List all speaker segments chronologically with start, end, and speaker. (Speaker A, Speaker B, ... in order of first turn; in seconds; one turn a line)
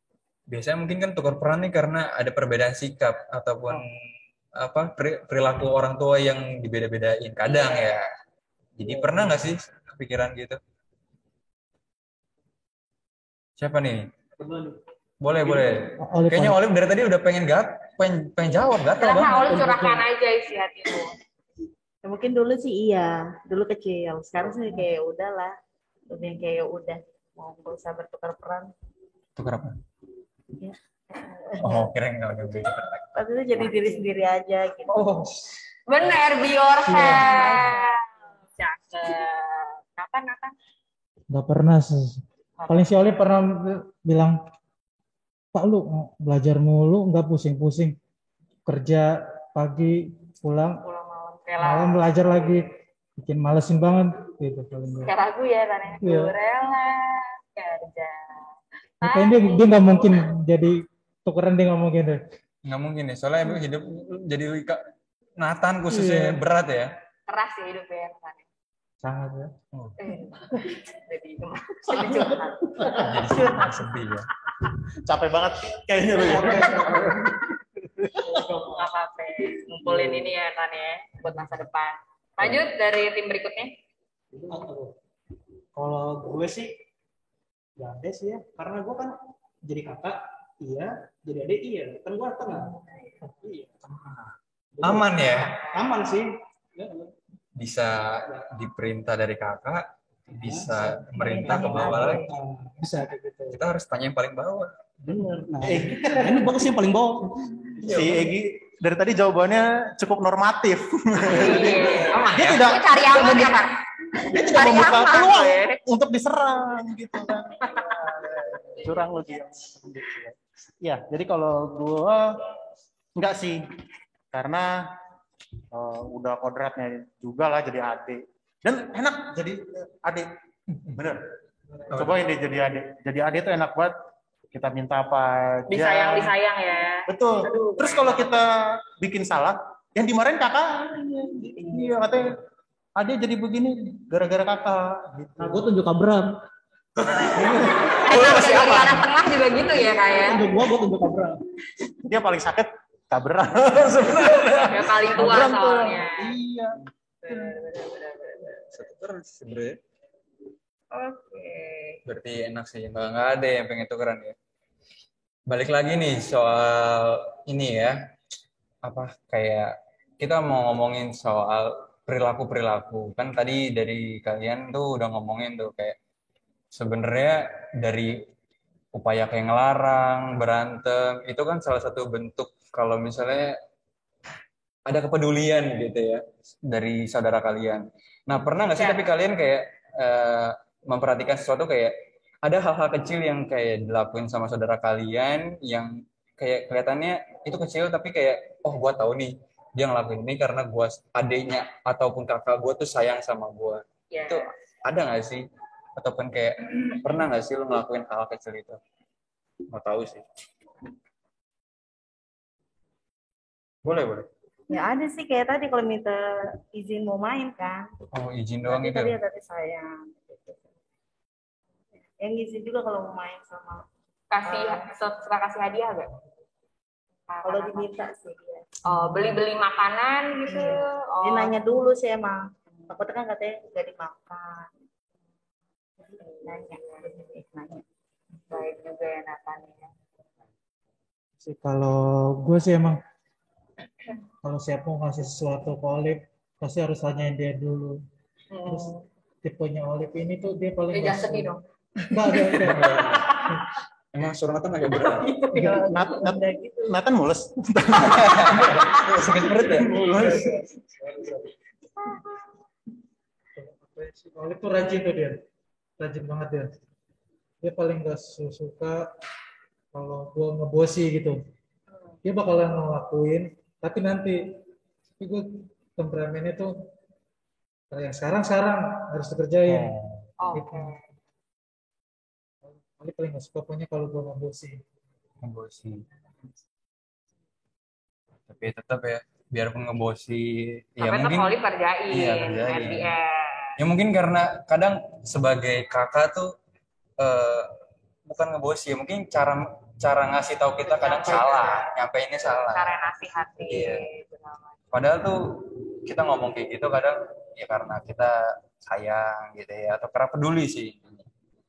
Speaker A: 0.5-3.9
Speaker A: 4.6-8.0
Speaker A: 8.8-10.6
Speaker B: 8.8-9.6
Speaker A: 13.6-14.0
Speaker B: 14.4-14.8
Speaker A: 15.2-19.4
Speaker B: 15.4-15.8
Speaker C: 16.0-16.6
Speaker D: 19.0-21.1
Speaker B: 19.1-20.1
Speaker E: 22.0-25.5
Speaker E: 26.1-28.7
Speaker A: 29.4-29.8
Speaker E: 30.6-31.9
Speaker A: 31.6-33.7
Speaker E: 33.2-35.0
Speaker A: 34.9-35.4
Speaker D: 35.9-38.0
Speaker C: 36.9-37.3
Speaker E: 37.0-38.0
Speaker D: 38.6-40.5
Speaker C: 41.3-44.4
Speaker D: 42.6-43.1
Speaker C: 45.5-48.0
Speaker C: 48.7-50.8
Speaker D: 50.8-52.7
Speaker C: 51.6-52.7
Speaker C: 53.2-55.1
Speaker D: 55.0-58.4
Speaker C: 56.0-56.3
Speaker D: 59.0-60.3
Speaker C: 59.0-62.2
Speaker A: 62.7-64.8
Speaker A: 65.4-66.9
Speaker C: 65.9-66.4
Speaker D: 67.3-68.5
Speaker C: 69.0-69.5
Speaker D: 70.0-73.0
Speaker F: 71.9-73.8
Speaker A: 73.0-74.3
Speaker F: 75.0-78.4
Speaker B: 76.1-77.2
Speaker D: 78.2-83.7
Speaker B: 78.4-78.8
Speaker B: 79.9-80.3
Speaker B: 84.3-84.9
Speaker B: 85.8-86.7
Speaker B: 87.8-97.1
Speaker A: 94.8-95.6
Speaker D: 95.2-96.0
Speaker A: 97.6-102.2
Speaker B: 100.3-103.6
Speaker E: 101.1-102.3
Speaker A: 103.5-104.7
Speaker B: 105.0-107.3
Speaker F: 105.6-106.7
Speaker F: 107.8-113.6
Speaker A: 107.8-108.2
Speaker D: 111.3-113.7
Speaker A: 111.8-112.7
Speaker D: 114.2-115.8
Speaker F: 114.2-122.2
Speaker D: 117.6-118.0
Speaker F: 123.2-123.6
Speaker F: 124.3-124.7
Speaker F: 125.7-130.3
Speaker F: 130.9-131.2
Speaker F: 131.9-133.9
Speaker A: 131.9-132.2
Speaker F: 134.5-136.3
Speaker D: 135.7-138.4
Speaker F: 137.1-142.4
Speaker F: 143.0-145.7
Speaker B: 145.4-146.3
Speaker F: 147.3-149.1
Speaker D: 147.9-150.5
Speaker B: 149.8-151.4
Speaker F: 152.1-156.7
Speaker D: 154.7-156.3
Speaker D: 157.2-158.7
Speaker F: 157.3-157.6
Speaker A: 158.7-159.8
Speaker D: 160.9-162.0
Speaker A: 162.1-164.3
Speaker A: 165.5-168.0
Speaker A: 168.8-176.0
Speaker A: 176.7-178.2
Speaker A: 178.9-183.6
Speaker A: 184.9-205.4
Speaker D: 188.8-189.1
Speaker D: 204.1-204.5
Speaker A: 206.0-208.8
Speaker A: 209.7-210.2
Speaker A: 213.8-214.3
Speaker E: 214.7-217.9
Speaker A: 218.1-219.2
Speaker E: 218.7-220.6
Speaker E: 222.2-223.8
Speaker D: 224.3-226.1
Speaker E: 224.5-224.9
Speaker D: 227.3-227.9
Speaker E: 227.4-229.2
Speaker D: 228.8-231.6
Speaker E: 230.5-234.7
Speaker E: 236.1-237.8
Speaker D: 236.2-237.1
Speaker D: 238.5-239.9
Speaker C: 241.4-243.0
Speaker C: 244.4-248.0
Speaker D: 248.5-249.0
Speaker C: 248.7-248.9
Speaker C: 249.4-251.5
Speaker D: 250.9-251.6
Speaker C: 252.1-252.9
Speaker A: 252.6-253.3
Speaker D: 253.1-253.5
Speaker A: 254.1-255.3
Speaker D: 255.1-256.2
Speaker F: 255.5-260.6
Speaker E: 256.2-256.9
Speaker A: 258.0-259.9
Speaker C: 263.6-265.4
Speaker C: 266.0-266.7
Speaker C: 267.6-269.1
Speaker C: 269.9-271.4
Speaker C: 272.2-274.4
Speaker C: 275.2-276.7
Speaker C: 277.9-280.0
Speaker D: 280.4-281.0
Speaker C: 280.5-281.0
Speaker C: 282.7-284.8
Speaker A: 285.4-286.0
Speaker A: 288.5-291.5
Speaker D: 291.0-293.8
Speaker A: 292.1-293.1
Speaker A: 293.8-296.5
Speaker A: 297.2-297.7
Speaker A: 298.3-303.0
Speaker D: 300.9-301.9
Speaker D: 302.7-304.8
Speaker A: 303.7-304.0
Speaker A: 304.9-311.2